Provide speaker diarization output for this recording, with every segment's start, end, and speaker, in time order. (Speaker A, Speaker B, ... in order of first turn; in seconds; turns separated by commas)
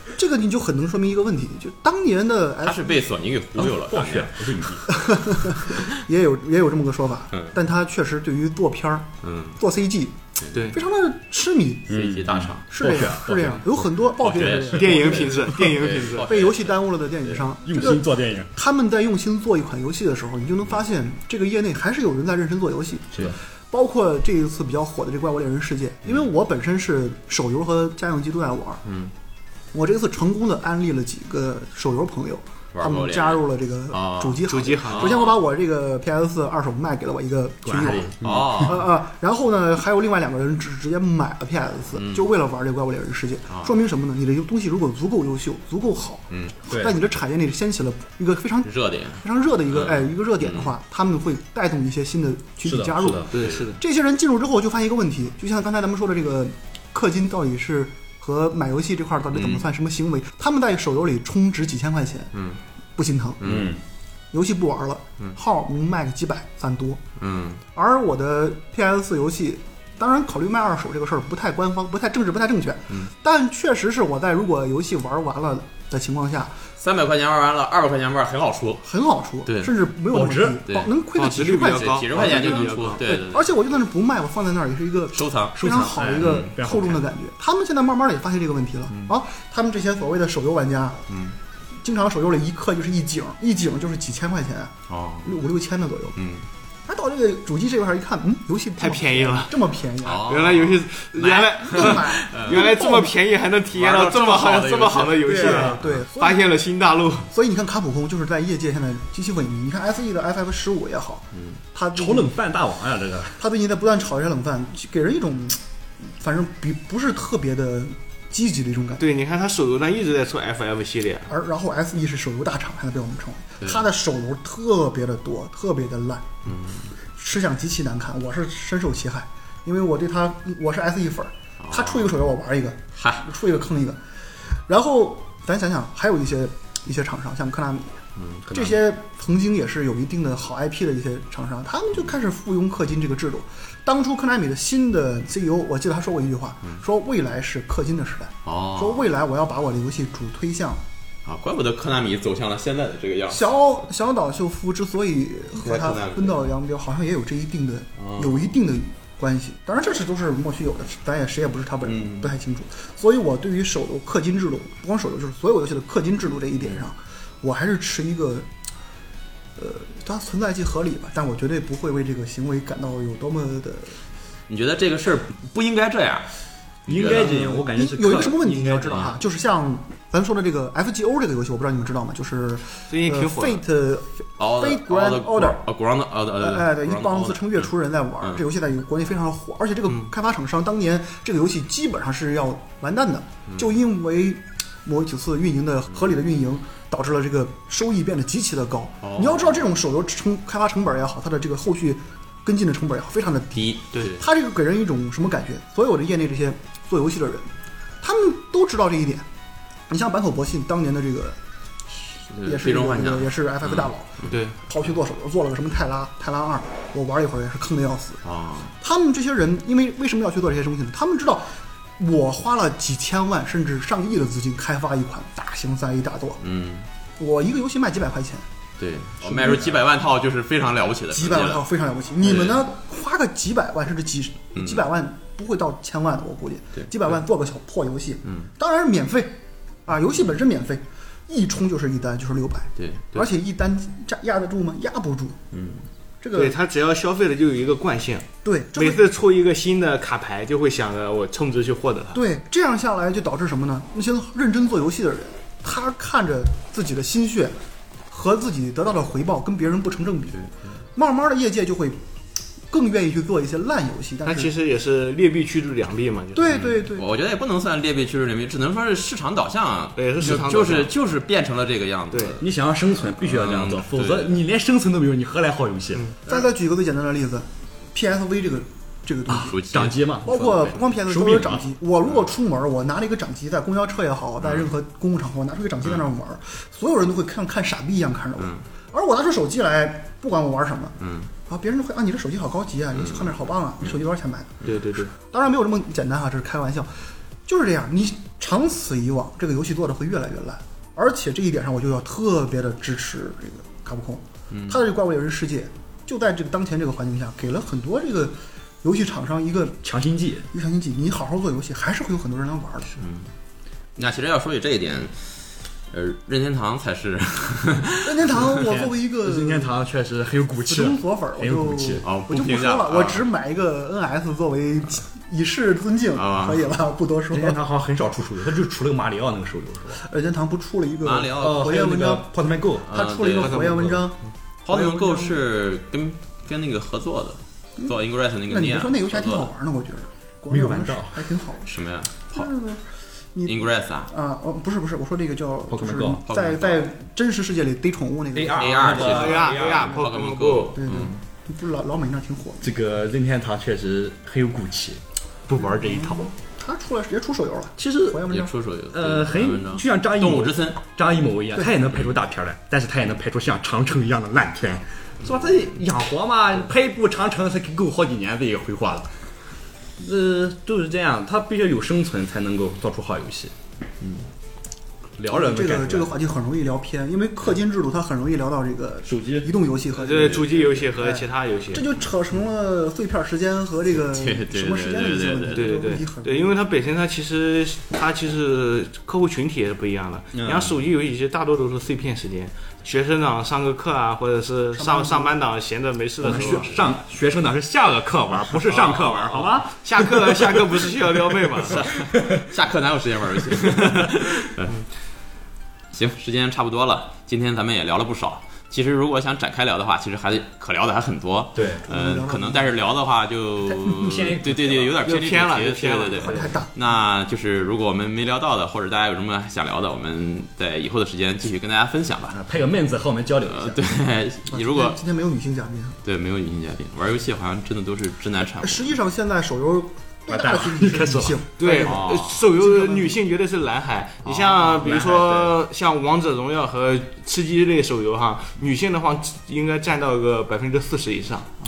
Speaker A: 0.1-3.1, Speaker B: 2.6-4.4, Speaker C: 3.6-5.1, Speaker A: 4.9-12.0, Speaker B: 9.2-9.6, Speaker D: 10.5-10.8, Speaker B: 11.9-13.1, Speaker C: 11.9-13.9, Speaker A: 12.7-15.3, Speaker B: 14.2-17.4, Speaker D: 14.7-16.3, Speaker C: 15.0-15.5, Speaker A: 16.2-28.8, Speaker C: 17.6-18.5, Speaker C: 23.1-23.4, Speaker B: 28.9-29.1, Speaker A: 29.7-62.3, Speaker B: 32.8-33.4, Speaker B: 33.9-35.4, Speaker D: 34.5-35.3, Speaker C: 37.6-38.8, Speaker B: 38.2-38.9, Speaker B: 42.0-42.3, Speaker C: 46.7-47.0, Speaker B: 48.6-50.7, Speaker C: 52.6-53.4, Speaker D: 53.3-53.8, Speaker B: 59.3-59.7, Speaker B: 62.3-62.6, Speaker A: 63.0-63.6, Speaker B: 63.4-63.7, Speaker C: 63.4-63.8, Speaker A: 64.3-67.0, Speaker B: 67.2-67.6, Speaker A: 67.7-76.5, Speaker B: 76.8-78.8, Speaker A: 78.8-91.0, Speaker B: 79.5-79.7, Speaker C: 80.1-80.6, Speaker B: 80.6-80.9, Speaker D: 81.2-83.0, Speaker B: 81.7-83.5, Speaker B: 85.1-86.5, Speaker C: 85.5-87.1, Speaker B: 88.9-89.2, Speaker B: 91.1-91.3, Speaker A: 91.8-94.7, Speaker B: 94.9-95.4, Speaker A: 95.2-96.2, Speaker B: 96.2-96.4, Speaker A: 96.9-100.5, Speaker D: 98.8-99.6, Speaker B: 100.0-102.8, Speaker D: 100.2-107.3, Speaker A: 101.6-103.2, Speaker B: 103.8-105.7, Speaker A: 105.2-106.5, Speaker C: 105.4-105.8, Speaker A: 107.3-112.3, Speaker C: 111.9-113.4, Speaker A: 113.4-119.0, Speaker D: 119.0-121.3, Speaker A: 121.3-126.3, Speaker B: 123.6-123.9, Speaker B: 126.5-126.9, Speaker A: 127.2-134.0, Speaker B: 131.6-132.1, Speaker B: 133.0-133.2, Speaker A: 134.5-150.8, Speaker C: 138.4-138.8, Speaker B: 148.5-149.1, Speaker B: 151.3-153.5, Speaker A: 153.3-168.5, Speaker B: 155.6-156.5, Speaker B: 158.0-158.5, Speaker B: 161.8-162.4, Speaker A: 169.6-174.0, Speaker B: 174.5-176.3, Speaker B: 176.9-177.3, Speaker C: 176.9-179.1, Speaker A: 177.0-185.6, Speaker B: 178.9-179.1, Speaker D: 182.9-183.6, Speaker B: 184.4-188.4, Speaker A: 186.4-207.5, Speaker B: 199.0-199.7, Speaker B: 203.5-204.2, Speaker A: 208.0-209.3, Speaker A: 209.9-211.4, Speaker B: 212.2-214.4, Speaker A: 212.4-218.2, Speaker D: 214.3-214.6, Speaker B: 218.2-218.7, Speaker A: 218.8-226.4, Speaker B: 226.4-226.9, Speaker A: 227.2-228.5, Speaker B: 228.8-231.6, Speaker A: 229.2-229.8, Speaker A: 231.1-245.4, Speaker B: 232.2-232.6, Speaker B: 234.6-234.9, Speaker B: 242.8-243.3, Speaker B: 245.5-245.8, Speaker A: 246.2-246.6, Speaker D: 246.3-252.2, Speaker A: 248.4-249.1, Speaker A: 252.1-257.6, Speaker A: 258.1-260.4, Speaker A: 260.9-262.0, Speaker A: 262.7-264.5, Speaker D: 264.2-266.6, Speaker A: 266.4-267.1, Speaker B: 266.5-272.4, Speaker D: 270.0-270.9, Speaker D: 272.1-272.4, Speaker C: 272.4-276.1, Speaker B: 273.2-274.4, Speaker A: 276.3-291.0, Speaker B: 279.3-280.8, Speaker C: 279.3-281.7, Speaker B: 284.4-284.7, Speaker B: 291.0-291.3, Speaker A: 291.5-309.8, Speaker B: 292.9-294.0, Speaker D: 294.6-295.1, Speaker B: 304.5-304.8, Speaker C: 309.8-310.5, Speaker A: 310.5-313.0, Speaker B: 313.0-313.3, Speaker B: 314.0-315.1, Speaker B: 315.9-318.4, Speaker A: 318.0-319.8, Speaker C: 318.6-322.1, Speaker A: 320.6-327.6, Speaker B: 322.0-323.3, Speaker B: 326.1-326.7, Speaker C: 327.3-330.0, Speaker A: 330.0-332.3, Speaker B: 331.0-331.7, Speaker C: 331.4-332.9, Speaker A: 332.9-335.4, Speaker B: 332.9-333.7, Speaker D: 333.4-333.9, Speaker C: 333.5-334.0, Speaker B: 334.6-339.5, Speaker A: 338.5-341.7, Speaker C: 340.5-341.3, Speaker B: 341.6-342.5, Speaker A: 342.3-349.3, Speaker B: 343.4-344.1, Speaker C: 345.7-346.2, Speaker B: 346.3-346.9, Speaker C: 348.3-350.0, Speaker B: 348.5-351.2, Speaker D: 348.9-350.8, Speaker A: 350.8-352.7, Speaker C: 352.6-356.3, Speaker A: 355.6-358.5, Speaker C: 357.8-358.2, Speaker B: 358.3-360.8, Speaker C: 358.9-369.1, Speaker C: 370.0-373.5, Speaker C: 375.2-376.1, Speaker A: 375.3-386.5, Speaker C: 379.1-379.5, Speaker D: 380.0-381.9, Speaker B: 383.9-385.9, Speaker D: 385.5-396.9, Speaker C: 390.3-390.8, Speaker A: 394.8-395.3, Speaker C: 396.2-400.6, Speaker D: 398.7-401.9, Speaker B: 401.7-404.7, Speaker C: 401.9-402.4, Speaker B: 405.9-422.4, Speaker C: 411.6-411.9, Speaker A: 411.7-412.8, Speaker A: 413.7-414.3, Speaker C: 414.0-414.9, Speaker D: 415.0-416.6, Speaker A: 416.1-416.7, Speaker C: 422.3-423.8, Speaker B: 423.5-425.0, Speaker A: 424.5-426.0, Speaker B: 426.0-428.9, Speaker A: 428.6-433.2, Speaker C: 430.3-431.5, Speaker D: 431.6-441.5, Speaker B: 431.8-432.4, Speaker B: 434.3-434.7, Speaker C: 434.7-435.6